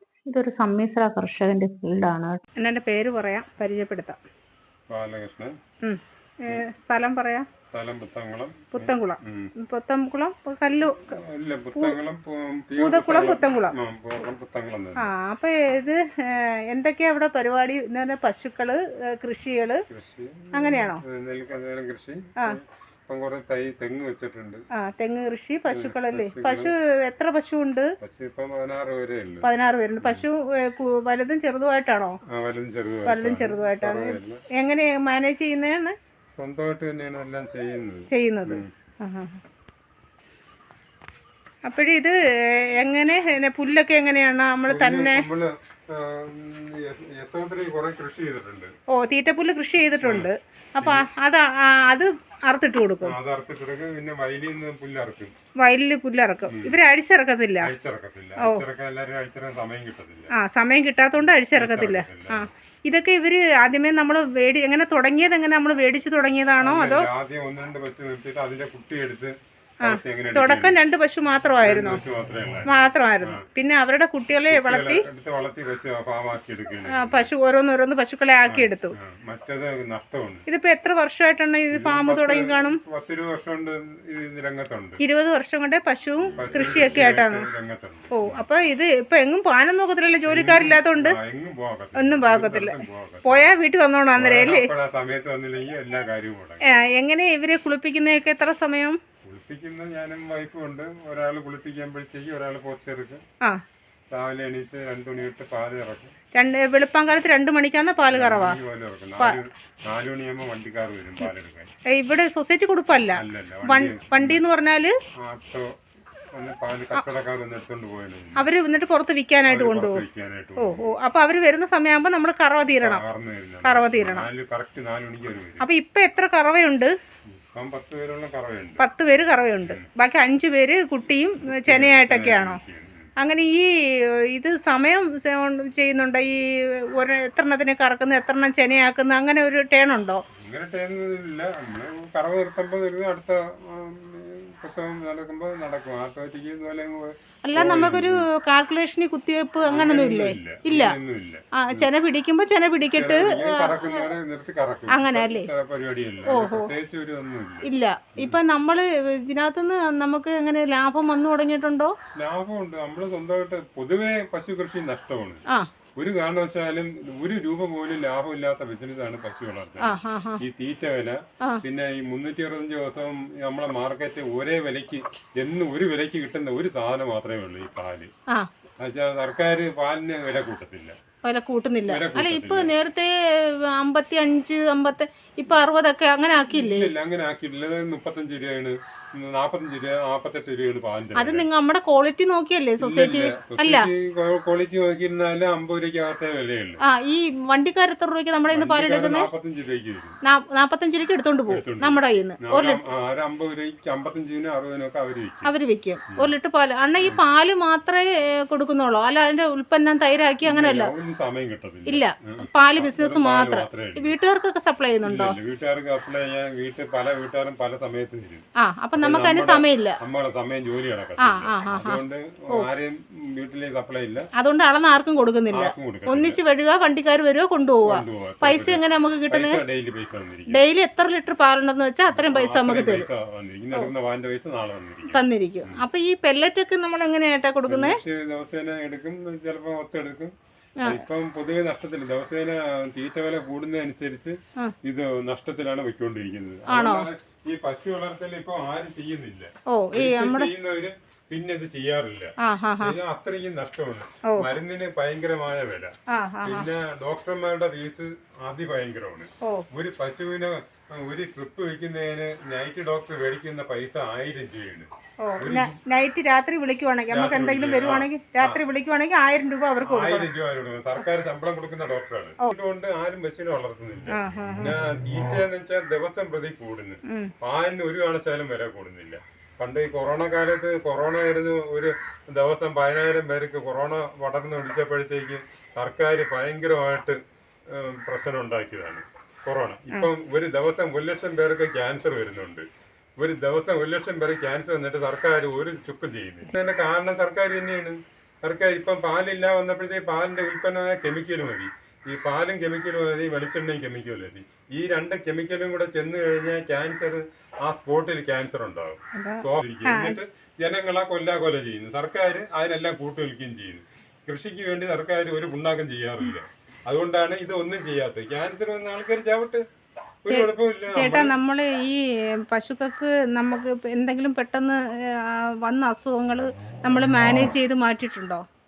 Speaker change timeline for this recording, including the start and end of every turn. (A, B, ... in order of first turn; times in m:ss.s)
0:00.3-0:02.4 A
0:02.6-0:04.2 B
0:04.9-0:05.5 C
0:05.8-0:07.5 B
0:07.7-0:09.5 C
0:08.7-0:11.2 B
0:11.0-0:15.1 C
0:12.8-0:13.7 B
0:15.0-0:19.8 B
0:19.9-0:24.6 C
0:20.5-0:21.0 B
0:24.7-0:27.9 B
0:25.7-0:26.7 C
0:28.0-0:29.5 C
0:29.4-0:32.2 B
0:30.0-0:30.3 C
0:32.3-0:34.4 C
0:33.1-0:35.9 B
0:36.3-0:38.7 C
0:38.1-0:39.4 B
0:41.7-0:42.2 B
0:42.8-0:45.2 B
0:44.7-0:48.7 C
0:48.9-0:53.2 B
0:50.0-0:51.1 C
0:53.0-0:55.3 C
0:55.6-0:57.7 B
0:56.5-0:56.8 C
0:57.6-1:00.3 C
0:58.4-0:58.6 B
1:00.3-1:07.1 B
1:01.5-1:02.5 C
1:06.6-1:10.8 C
1:09.8-1:12.0 B
1:11.6-1:13.4 C
1:12.7-1:15.0 B
1:14.5-1:17.3 C
1:16.9-1:18.9 B
1:18.5-1:20.4 C
1:20.5-1:22.8 B
1:21.7-1:25.0 C
1:25.0-1:27.5 B
1:26.3-1:28.4 C
1:28.1-1:31.2 B
1:30.3-1:33.6 C
1:32.0-1:34.7 B
1:34.2-1:36.7 C
1:36.6-1:39.0 B
1:39.2-1:43.2 C
1:44.1-1:46.1 C
1:46.4-1:48.6 B
1:48.1-1:51.7 C
1:51.9-1:54.9 B
1:53.1-1:54.4 C
1:55.2-1:55.7 C
1:56.3-1:58.5 C
1:58.4-2:00.0 B
1:59.5-2:00.9 C
2:00.6-2:03.0 B
2:02.8-2:05.6 C
2:03.6-2:04.3 B
2:05.6-2:06.9 B
2:07.3-2:08.8 C
2:08.8-2:12.6 B
2:11.5-2:13.1 C
2:13.2-2:13.7 B
2:14.3-2:20.2 B
2:20.4-2:28.3 C
2:27.4-2:31.0 B
2:29.7-2:31.9 C
2:31.5-2:34.1 B
2:32.9-2:38.4 C
2:34.9-2:35.5 B
2:36.3-2:36.7 B
2:37.6-2:41.9 B
2:42.2-2:45.4 C
2:46.0-2:58.1 C
2:49.8-2:50.4 B
2:58.8-3:01.0 C
3:01.2-3:06.9 B
3:01.9-3:02.7 C
3:06.5-3:11.5 C
3:11.2-3:13.9 B
3:12.8-3:16.8 C
3:16.8-3:19.3 B
3:18.5-3:20.2 C
3:20.2-3:22.8 B
3:21.5-3:25.5 C
3:25.4-3:30.9 B
3:30.4-3:34.2 C
3:31.9-3:35.4 B
3:35.0-3:44.3 C
3:38.6-3:40.0 B
3:41.2-3:42.7 B
3:44.4-3:49.6 B
3:45.5-3:46.4 C
3:47.8-3:50.6 C
3:50.5-3:53.1 B
3:52.1-3:55.9 C
3:55.1-3:58.0 B
3:57.7-4:15.9 C
4:06.7-4:07.1 B
4:09.7-4:10.5 B
4:12.4-4:13.0 B
4:16.1-4:16.7 B
4:16.4-4:25.8 C
4:25.2-4:30.3 B
4:27.1-4:28.6 C
4:29.8-4:47.2 C
4:34.1-4:34.8 B
4:47.7-4:52.7 C
4:53.2-5:19.6 C
5:09.2-5:10.2 B
5:20.2-5:21.4 C
5:20.3-5:28.4 B